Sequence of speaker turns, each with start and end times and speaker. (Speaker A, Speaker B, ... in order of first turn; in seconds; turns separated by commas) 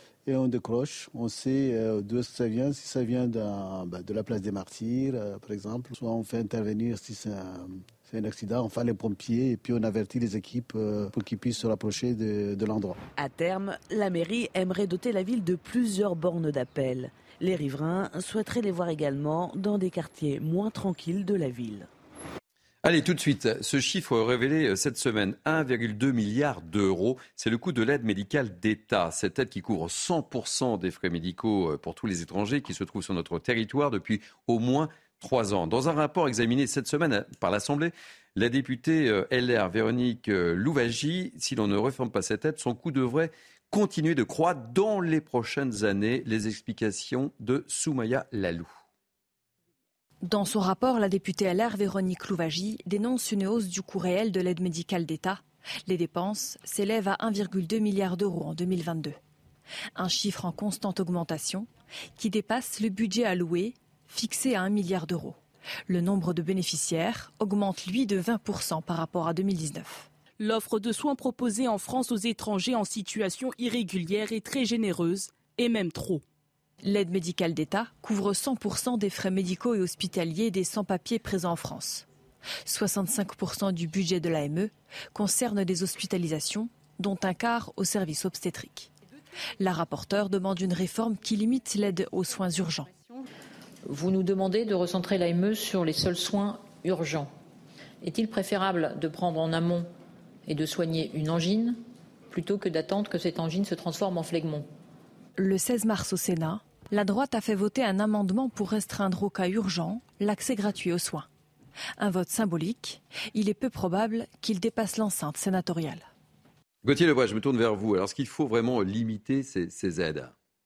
Speaker A: 0.2-13.0, Speaker B: 13.2-21.9, Speaker C: 22.8-48.7, Speaker D: 50.2-59.2, Speaker D: 60.0-70.1, Speaker E: 70.4-76.2, Speaker D: 76.8-82.0, Speaker D: 82.7-88.9, Speaker D: 89.6-92.9, Speaker F: 93.9-97.3, Speaker F: 98.0-99.9, Speaker F: 100.5-104.7, Speaker D: 105.4-111.3, Speaker D: 112.0-116.0, Speaker C: 116.8-120.3